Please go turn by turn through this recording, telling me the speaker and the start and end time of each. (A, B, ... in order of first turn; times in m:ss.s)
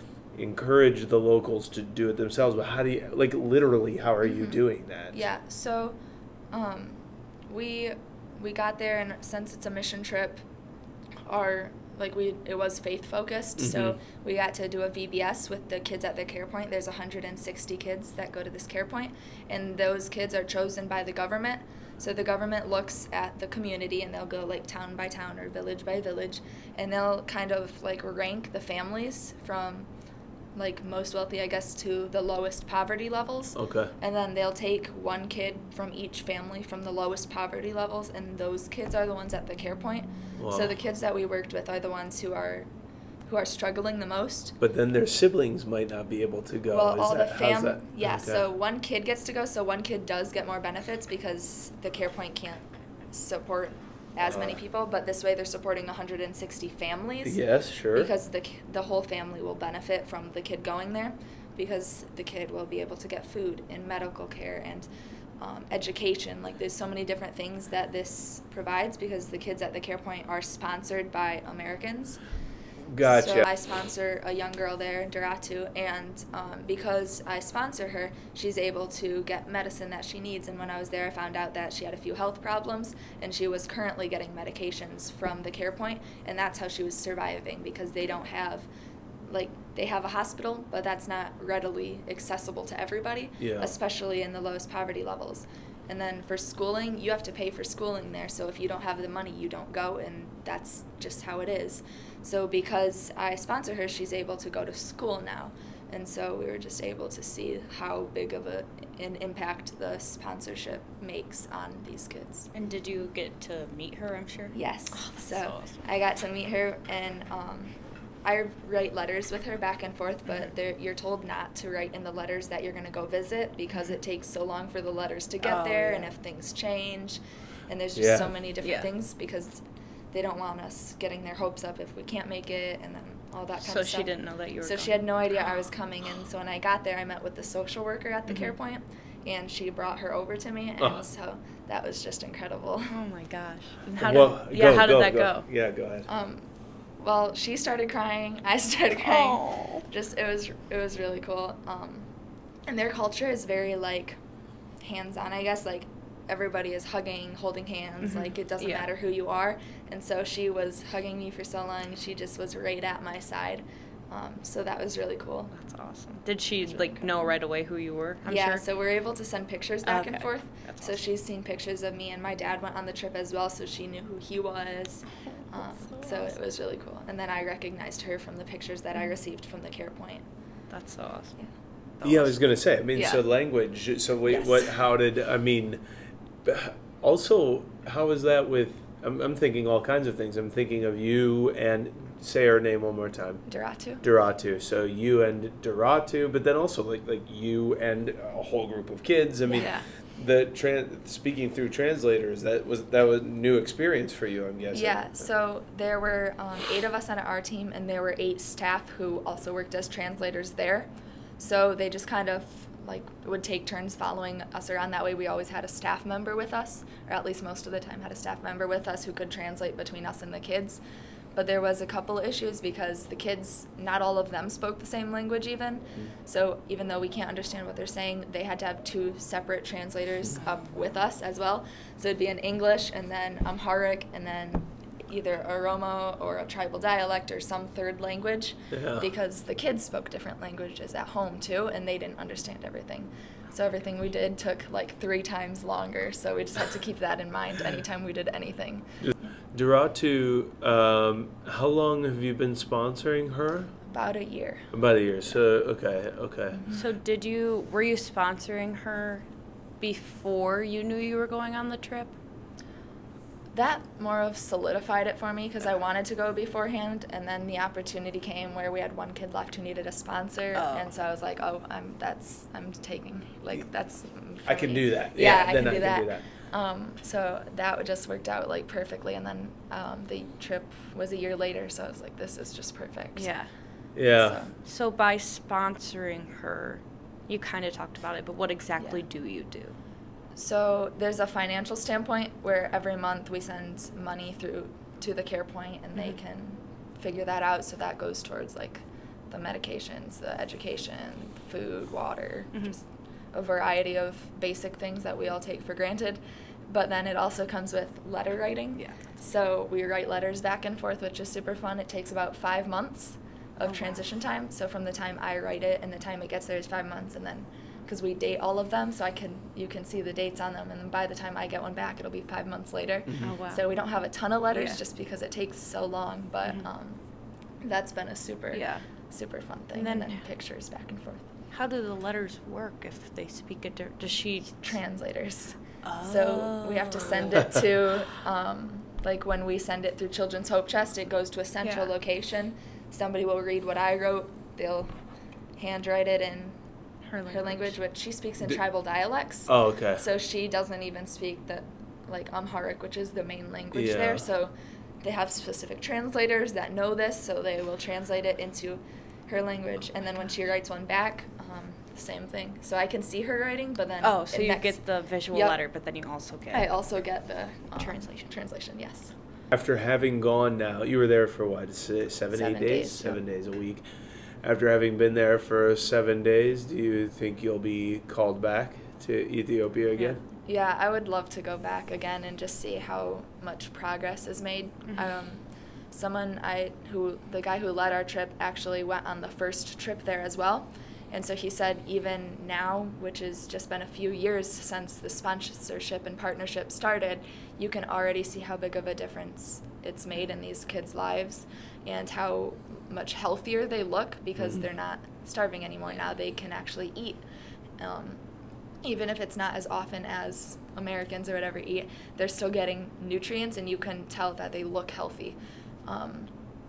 0:00.4-0:05.2 A
0:04.2-0:04.6 B
0:05.1-0:06.0 B
0:06.5-0:10.4 B
0:11.2-0:29.9 B
0:13.6-0:14.0 A
0:30.6-0:42.7 B
0:33.6-0:33.9 A
0:40.4-0:40.7 A
0:43.2-0:44.6 B
0:44.6-0:48.4 A
0:46.7-0:57.4 B
0:54.2-0:54.6 A
0:57.2-0:58.1 A
0:57.9-1:04.9 B
1:05.4-1:12.2 B
1:12.9-1:13.5 A
1:13.0-1:28.7 B
1:29.2-1:52.5 B
1:33.4-1:33.8 A
1:52.5-1:55.8 C
1:54.5-2:22.9 B
2:05.4-2:06.1 C
2:08.0-2:08.3 A
2:08.6-2:08.9 C
2:13.6-2:15.0 C
2:18.3-2:18.5 C
2:22.9-2:25.4 C
2:24.0-2:26.1 A
2:26.1-2:32.1 B
2:28.9-2:29.8 C
2:32.7-2:34.2 B
2:34.8-2:45.5 B
2:38.0-2:38.9 C
2:45.5-2:48.6 C
2:46.6-2:47.3 B
2:48.2-3:00.2 B
2:49.8-2:51.0 C
2:55.3-2:56.3 C
3:00.7-3:01.4 C
3:02.0-3:02.4 C
3:02.0-3:05.8 A
3:04.3-3:04.7 B
3:06.4-3:13.4 A
3:13.5-3:14.0 B
3:14.0-3:25.2 A
3:19.5-3:19.7 B
3:19.6-3:19.9 C
3:24.7-3:40.8 B
3:41.3-4:08.9 B
3:58.7-3:59.1 A
4:09.0-4:13.7 A
4:13.9-4:14.7 B
4:14.7-4:16.6 A
4:16.5-4:16.8 B
4:16.7-4:19.2 C
4:19.8-4:22.1 C
4:23.5-4:43.3 B
4:30.5-4:30.9 C
4:34.4-4:36.3 A
4:43.2-4:43.5 C
4:44.0-4:44.4 A
4:44.1-4:44.5 B
4:44.6-4:49.8 C
4:48.8-4:49.0 B
4:50.4-5:27.0 B
5:08.8-5:09.0 C
5:13.6-5:14.0 C
5:23.2-5:23.6 C
5:24.5-5:24.8 C
5:27.6-5:31.3 B
5:28.5-5:28.8 C
5:29.8-5:30.2 C
5:31.5-5:34.7 C
5:34.6-5:44.9 B
5:35.8-5:37.4 C
5:41.6-5:41.9 C
5:45.6-5:46.6 B
5:47.1-5:47.8 C
5:47.3-6:04.8 B
5:49.5-5:50.0 A
5:53.7-5:54.2 A
6:04.0-6:06.8 C
6:05.3-6:05.6 B
6:06.5-6:09.1 B
6:07.8-6:08.2 C
6:09.5-6:13.8 A
6:12.3-6:13.2 B
6:14.4-6:20.2 A
6:20.4-6:47.2 B
6:47.8-6:48.2 B
6:48.8-6:56.3 B